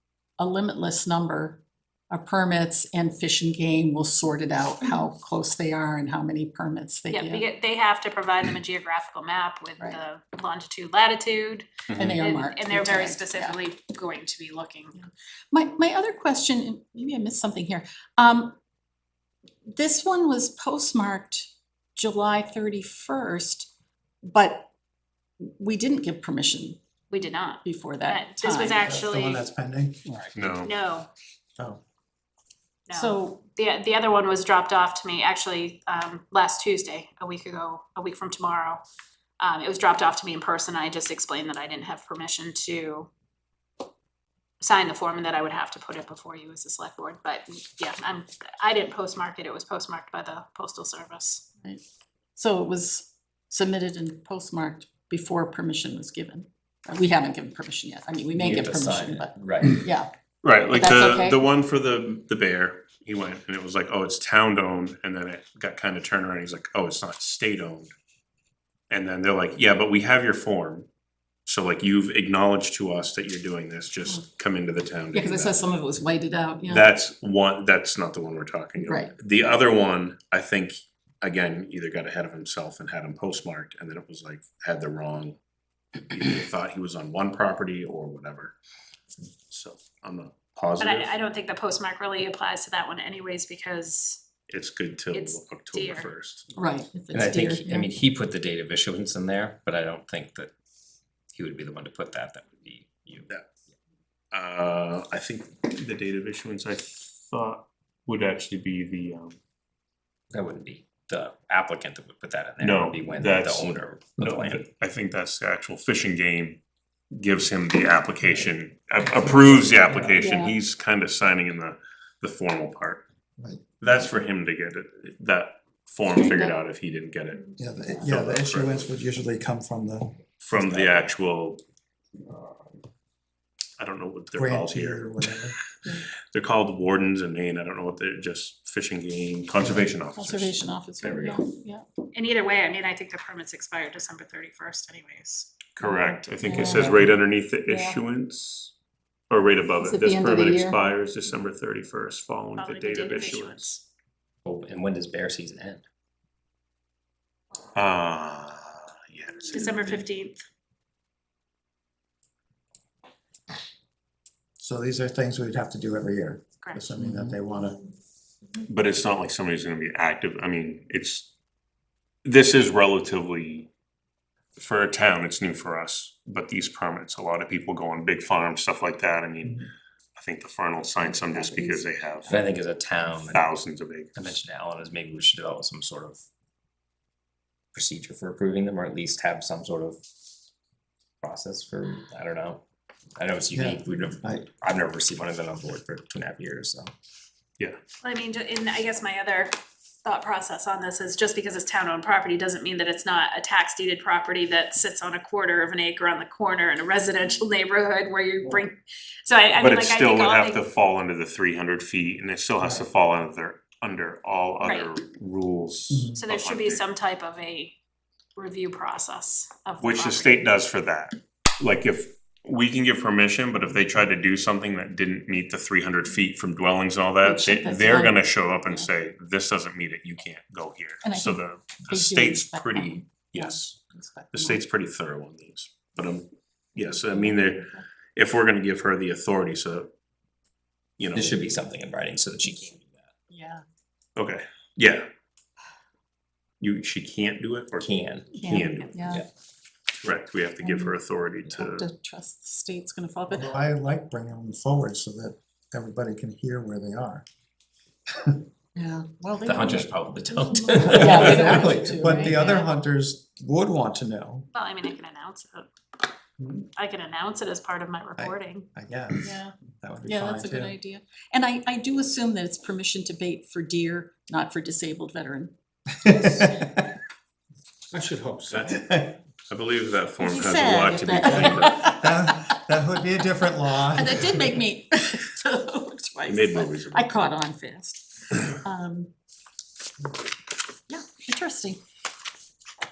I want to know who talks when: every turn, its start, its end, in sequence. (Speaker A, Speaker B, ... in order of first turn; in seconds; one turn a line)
Speaker A: 0.4-7.4
Speaker B: 7.1-15.0
Speaker C: 11.9-12.2
Speaker A: 12.0-13.6
Speaker A: 15.0-18.6
Speaker A: 19.7-23.7
Speaker A: 24.2-24.7
Speaker A: 25.4-26.8
Speaker B: 27.1-29.4
Speaker A: 27.6-28.9
Speaker D: 28.8-30.1
Speaker C: 30.3-30.7
Speaker B: 30.6-31.1
Speaker B: 32.9-38.8
Speaker A: 32.9-33.4
Speaker B: 39.4-43.1
Speaker B: 44.6-51.4
Speaker A: 52.4-60.1
Speaker E: 58.3-59.8
Speaker C: 60.4-67.9
Speaker A: 60.7-61.4
Speaker C: 68.9-70.9
Speaker C: 71.5-75.6
Speaker A: 75.1-76.9
Speaker C: 76.7-85.4
Speaker A: 78.8-79.1
Speaker C: 86.0-88.5
Speaker C: 89.5-91.1
Speaker B: 90.8-94.2
Speaker C: 94.5-96.5
Speaker B: 95.1-96.1
Speaker A: 96.5-97.9
Speaker E: 97.1-100.5
Speaker E: 101.3-103.3
Speaker C: 104.3-109.3
Speaker E: 110.3-114.6
Speaker C: 112.6-123.0
Speaker D: 119.0-120.3
Speaker A: 120.2-120.5
Speaker D: 123.4-123.8
Speaker C: 123.8-128.9
Speaker A: 126.1-126.5
Speaker D: 127.5-130.2
Speaker C: 130.4-131.6
Speaker E: 130.5-131.1
Speaker C: 133.8-135.5
Speaker D: 134.3-135.5
Speaker C: 136.3-141.4
Speaker D: 139.6-139.9
Speaker A: 140.1-141.8
Speaker B: 142.1-145.7
Speaker C: 145.7-148.7
Speaker A: 145.8-147.1
Speaker D: 146.7-147.1
Speaker A: 147.7-148.0
Speaker C: 149.3-153.7
Speaker A: 149.8-150.8
Speaker B: 152.6-153.8
Speaker E: 154.4-155.8
Speaker C: 157.7-160.1
Speaker B: 159.5-160.4
Speaker D: 164.6-167.8
Speaker B: 166.6-166.9
Speaker C: 168.6-171.3
Speaker C: 172.2-173.7
Speaker C: 174.6-182.3
Speaker A: 181.0-181.9
Speaker E: 182.3-183.5
Speaker C: 183.2-184.4
Speaker E: 184.1-186.2
Speaker E: 187.7-190.0
Speaker E: 191.2-192.6
Speaker E: 193.2-196.9
Speaker D: 193.5-194.4
Speaker B: 198.0-199.5
Speaker B: 200.0-210.6
Speaker C: 209.5-216.8
Speaker D: 212.6-212.8
Speaker B: 214.6-214.9
Speaker D: 215.9-216.2
Speaker B: 216.1-217.8
Speaker B: 218.3-220.4
Speaker C: 219.8-233.7
Speaker A: 227.2-228.9
Speaker A: 231.0-234.6
Speaker C: 234.3-239.9
Speaker A: 236.8-237.8
Speaker C: 241.0-241.4
Speaker E: 241.1-243.1
Speaker A: 243.3-243.6
Speaker C: 244.2-245.1
Speaker C: 246.6-248.9
Speaker E: 247.8-249.3
Speaker A: 248.4-249.2
Speaker C: 250.0-251.9
Speaker A: 250.6-253.5
Speaker D: 253.3-257.2
Speaker A: 258.8-262.7
Speaker E: 259.4-261.8
Speaker D: 260.9-264.5
Speaker B: 264.5-265.7
Speaker D: 266.4-266.6
Speaker B: 266.8-268.7
Speaker D: 268.2-270.8
Speaker A: 269.2-269.5
Speaker A: 270.0-275.5
Speaker D: 276.0-276.9
Speaker C: 277.9-278.8
Speaker D: 277.9-279.2
Speaker C: 279.5-281.9
Speaker A: 280.2-282.4
Speaker D: 281.1-284.6
Speaker A: 283.9-289.1
Speaker C: 286.2-287.1
Speaker A: 290.9-291.8